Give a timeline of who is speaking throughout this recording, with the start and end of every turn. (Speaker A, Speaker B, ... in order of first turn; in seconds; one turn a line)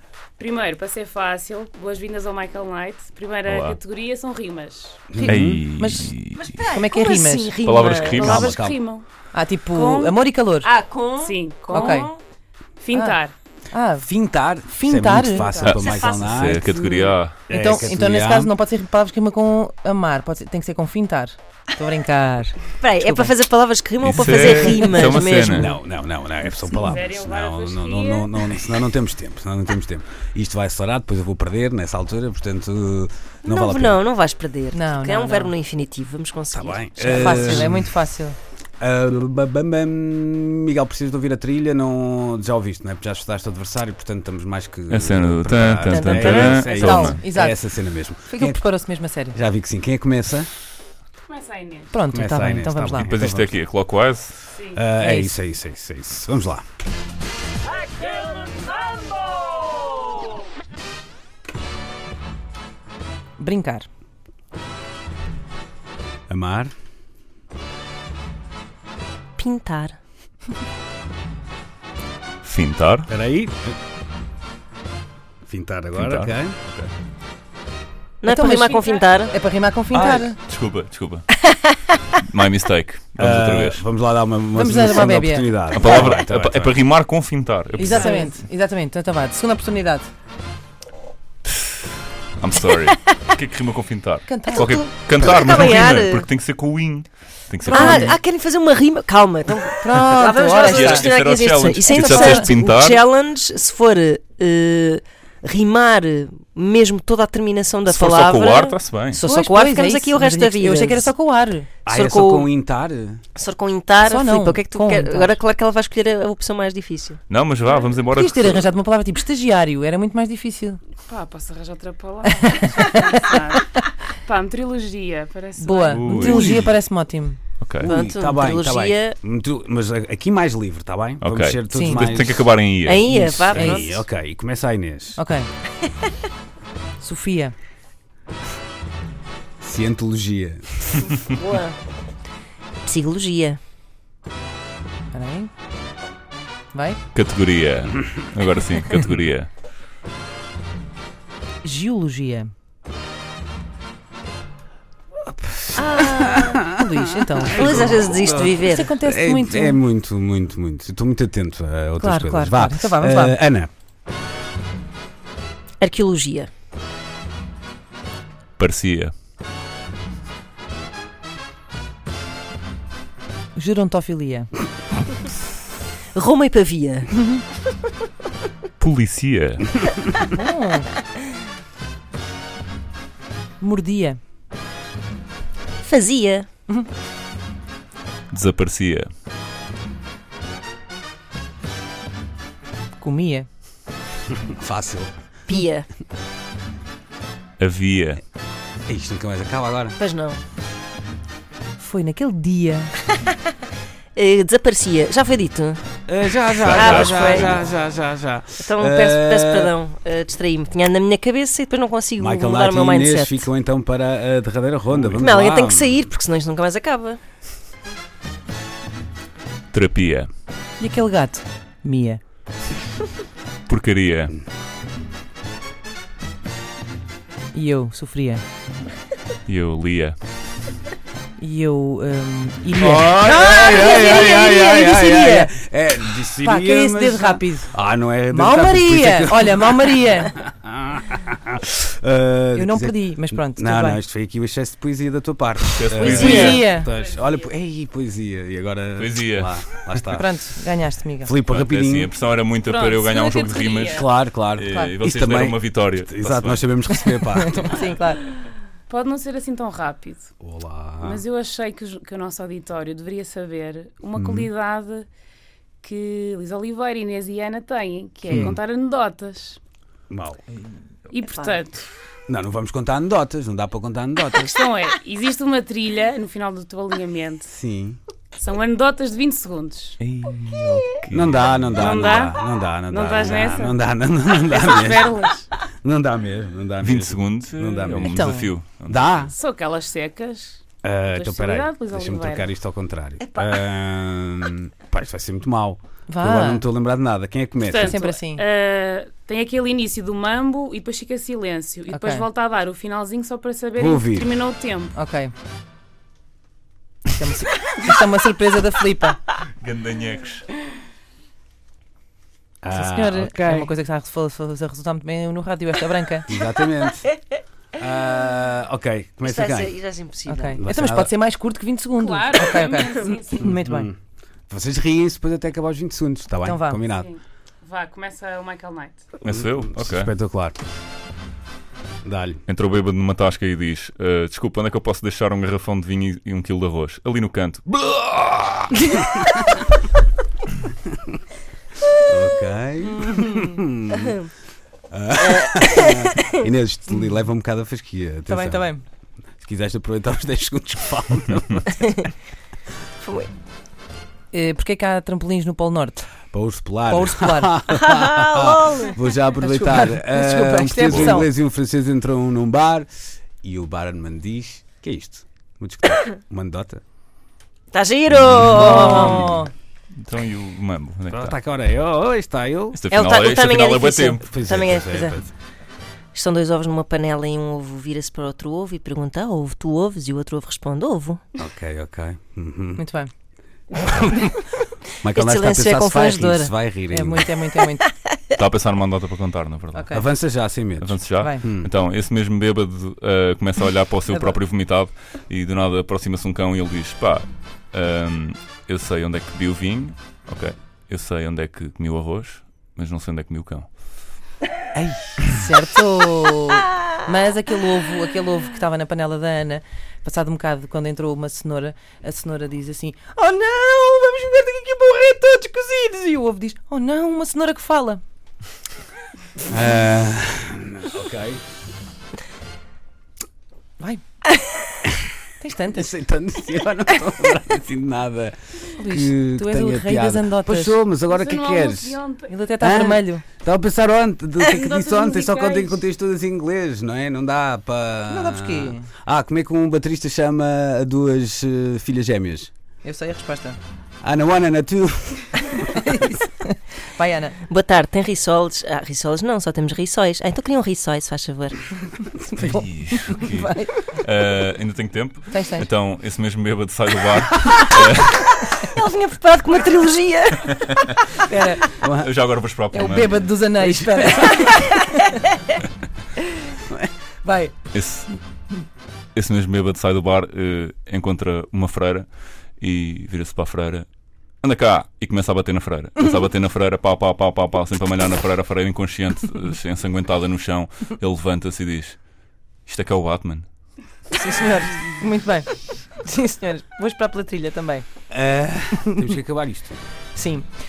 Speaker A: 0.4-5.1
Speaker B: 3.4-3.8
Speaker C: 5.1-5.6
Speaker D: 5.2-7.5
Speaker B: 5.2-6.5
Speaker E: 6.4-8.4
Speaker B: 7.6-8.6
Speaker A: 8.0-9.1
Speaker C: 8.2-8.8
Speaker D: 9.3-10.7
Speaker A: 9.7-10.2
Speaker E: 10.6-12.2
Speaker A: 11.2-12.1
Speaker D: 11.7-12.1
Speaker A: 12.8-13.3
Speaker D: 13.7-14.1
Speaker C: 14.0-18.5
Speaker D: 14.7-15.5
Speaker B: 15.6-17.4
Speaker E: 15.6-16.7
Speaker D: 17.5-23.3
Speaker E: 22.8-25.8
Speaker B: 24.0-25.7
Speaker D: 24.2-25.0
Speaker C: 25.5-34.0
Speaker A: 26.7-28.6
Speaker E: 33.4-37.7
Speaker D: 34.7-35.5
Speaker C: 36.5-37.9
Speaker D: 37.0-38.4
Speaker C: 38.8-48.7
Speaker B: 44.9-47.2
Speaker E: 45.9-46.9
Speaker D: 46.7-47.6
Speaker D: 48.2-49.4
Speaker C: 49.3-50.5
Speaker A: 51.3-51.9
Speaker D: 51.9-53.1
Speaker C: 52.1-53.5
Speaker B: 53.0-54.5
Speaker A: 54.5-54.8
Speaker C: 54.7-56.6
Speaker D: 55.0-55.4
Speaker D: 63.4-63.9
Speaker C: 66.3-66.7
Speaker E: 69.4-70.0
Speaker B: 72.4-73.1
Speaker C: 73.1-73.8
Speaker C: 75.4-76.5
Speaker B: 75.9-76.9
Speaker E: 78.2-79.3
Speaker D: 78.2-80.4
Speaker C: 79.9-80.3
Speaker B: 80.4-81.3
Speaker E: 81.5-81.8
Speaker B: 82.2-83.8
Speaker C: 83.2-86.8
Speaker D: 84.5-85.5
Speaker B: 85.7-88.1
Speaker D: 87.8-90.1
Speaker E: 87.9-88.3
Speaker B: 92.4-98.1
Speaker E: 92.8-93.2
Speaker D: 94.3-94.8
Speaker E: 94.5-96.3
Speaker D: 97.6-98.2
Speaker E: 97.7-111.1
Speaker D: 99.4-101.0
Speaker B: 100.6-103.0
Speaker D: 101.8-102.5
Speaker B: 107.9-109.2
Speaker D: 109.1-111.7
Speaker C: 111.8-113.2
Speaker E: 111.9-112.5
Speaker E: 113.3-117.2
Speaker D: 114.0-115.4
Speaker B: 117.3-118.7
Speaker A: 117.7-118.0
Speaker D: 118.1-120.8
Speaker A: 121.1-126.6
Speaker D: 122.2-123.8
Speaker D: 125.6-127.4
Speaker B: 125.9-126.7
Speaker C: 126.3-126.7
Speaker B: 127.6-127.9
Speaker C: 127.8-132.5
Speaker E: 127.8-129.2
Speaker B: 131.2-133.2
Speaker D: 131.7-132.0
Speaker E: 132.8-134.0
Speaker C: 133.1-135.2
Speaker D: 133.5-133.9
Speaker D: 135.2-135.5
Speaker D: 137.0-137.5
Speaker C: 139.6-141.1
Speaker E: 141.3-141.8
Speaker E: 142.8-143.6
Speaker D: 145.1-145.5
Speaker D: 146.7-147.0
Speaker B: 147.1-149.5
Speaker D: 151.6-152.5
Speaker C: 155.3-163.7
Speaker E: 155.8-156.6
Speaker D: 156.7-159.8
Speaker E: 157.5-158.9
Speaker D: 162.0-163.4
Speaker E: 165.8-166.5
Speaker B: 168.6-169.1
Speaker D: 173.5-174.5
Speaker E: 176.1-177.1
Speaker D: 177.2-177.4
Speaker B: 178.8-179.8
Speaker D: 180.3-180.9
Speaker D: 183.6-184.2
Speaker E: 185.8-186.4
Speaker B: 188.3-189.1
Speaker D: 193.0-193.5
Speaker C: 194.3-195.1
Speaker E: 195.5-195.8
Speaker B: 197.6-198.2
Speaker C: 198.9-200.0
Speaker E: 200.0-200.4
Speaker D: 201.8-202.9
Speaker E: 204.1-205.8
Speaker C: 206.1-209.7
Speaker B: 206.6-207.6
Speaker E: 206.7-207.6
Speaker E: 208.6-213.5
Speaker C: 212.2-216.1
Speaker E: 215.1-217.2
Speaker B: 219.7-220.3
Speaker D: 220.8-222.2
Speaker B: 223.7-224.3
Speaker D: 227.5-228.4
Speaker B: 229.5-230.2
Speaker D: 231.4-235.5
Speaker C: 232.7-250.3
Speaker E: 233.3-234.6
Speaker D: 236.4-237.7
Speaker D: 238.3-240.3
Speaker D: 242.5-244.0
Speaker B: 245.7-246.7
Speaker A: 245.9-247.5
Speaker D: 246.1-246.9
Speaker B: 249.0-249.6
Speaker D: 250.1-251.3
Speaker C: 251.2-252.1
Speaker B: 251.4-256.7
Speaker A: 252.6-254.1
Speaker C: 253.9-257.8
Speaker D: 257.1-258.2
Speaker A: 258.9-260.3
Speaker C: 260.4-261.2
Speaker A: 261.0-265.1
Speaker C: 264.1-264.5
Speaker A: 265.8-269.6
Speaker C: 268.3-268.6
Speaker C: 270.1-270.4
Speaker A: 271.1-271.9
Speaker E: 271.3-271.6
Speaker C: 272.3-274.6
Speaker A: 274.3-277.5
Speaker C: 277.5-278.0
Speaker A: 278.4-280.0
Speaker B: 280.0-282.0
Speaker C: 281.1-285.2
Speaker A: 281.8-285.5
Speaker C: 285.8-289.3
Speaker B: 286.8-289.3
Speaker D: 288.1-288.5
Speaker A: 289.3-292.5
Speaker C: 290.8-298.0
Speaker D: 296.1-296.6
Speaker A: 297.6-304.9
Speaker D: 297.8-298.4
Speaker D: 301.9-302.3
Speaker C: 303.8-304.3
Speaker D: 304.9-305.3
Speaker D: 307.1-309.2
Speaker B: 309.6-310.4
Speaker C: 312.6-313.7
Speaker D: 312.7-316.3
Speaker C: 316.3-317.1
Speaker C: 317.7-319.8
Speaker E: 319.2-320.6
Speaker D: 320.3-323.9
Speaker C: 320.6-321.1
Speaker A: 322.0-323.6
Speaker C: 323.5-323.9
Speaker C: 324.5-327.1
Speaker D: 326.4-326.8
Speaker A: 327.0-329.1
Speaker B: 329.2-330.1
Speaker C: 329.3-330.6
Speaker C: 332.0-332.4
Speaker B: 332.5-338.3
Speaker C: 338.3-338.9
Speaker C: 342.1-344.1
Speaker D: 343.1-343.4
Speaker C: 344.9-348.7
Speaker E: 345.2-346.4
Speaker D: 348.3-348.8
Speaker C: 349.4-351.8
Speaker E: 353.0-353.3
Speaker D: 354.3-356.1
Speaker C: 356.3-362.9
Speaker D: 356.9-357.5
Speaker E: 357.7-358.9
Speaker D: 359.4-361.3
Speaker B: 360.8-361.2
Speaker C: 363.4-366.8
Speaker E: 367.7-369.4
Speaker B: 368.1-369.2
Speaker C: 368.4-369.4
Speaker D: 368.5-369.5
Speaker B: 369.9-371.4
Speaker C: 371.1-372.8
Speaker B: 372.7-374.3
Speaker E: 372.9-375.2
Speaker C: 374.2-375.3
Speaker E: 376.1-381.2
Speaker C: 381.4-382.8
Speaker D: 382.8-383.1
Speaker C: 383.8-384.3
Speaker C: 385.0-387.3
Speaker E: 385.1-386.5
Speaker D: 386.9-387.9
Speaker B: 388.4-390.0
Speaker D: 389.7-390.0
Speaker C: 389.9-391.7
Speaker B: 390.8-403.7
Speaker D: 391.2-391.4
Speaker D: 394.1-394.3
Speaker C: 404.7-405.1
Speaker D: 405.2-418.0
Speaker C: 419.5-421.4
Speaker D: 425.4-426.0
Speaker C: 425.7-432.0
Speaker D: 428.8-430.8
Speaker A: 431.1-432.3
Speaker D: 432.3-433.2
Speaker C: 432.6-442.5
Speaker A: 434.5-435.8
Speaker D: 438.1-438.9
Speaker D: 442.8-443.6
Speaker C: 444.0-445.8
Speaker D: 445.9-447.4
Speaker E: 447.5-451.6
Speaker D: 452.2-453.8
Speaker B: 452.4-458.3
Speaker D: 455.3-455.7
Speaker E: 458.3-460.9
Speaker D: 461.2-461.6
Speaker C: 461.8-462.1
Speaker B: 462.0-463.3
Speaker D: 462.7-465.2
Speaker C: 463.6-464.6
Speaker D: 467.2-467.5
Speaker B: 467.7-468.2
Speaker B: 469.1-473.9
Speaker B: 474.4-482.0
Speaker B: 482.6-483.4
Speaker D: 484.1-487.9
Speaker C: 488.1-489.8
Speaker D: 488.9-489.1
Speaker D: 490.1-490.5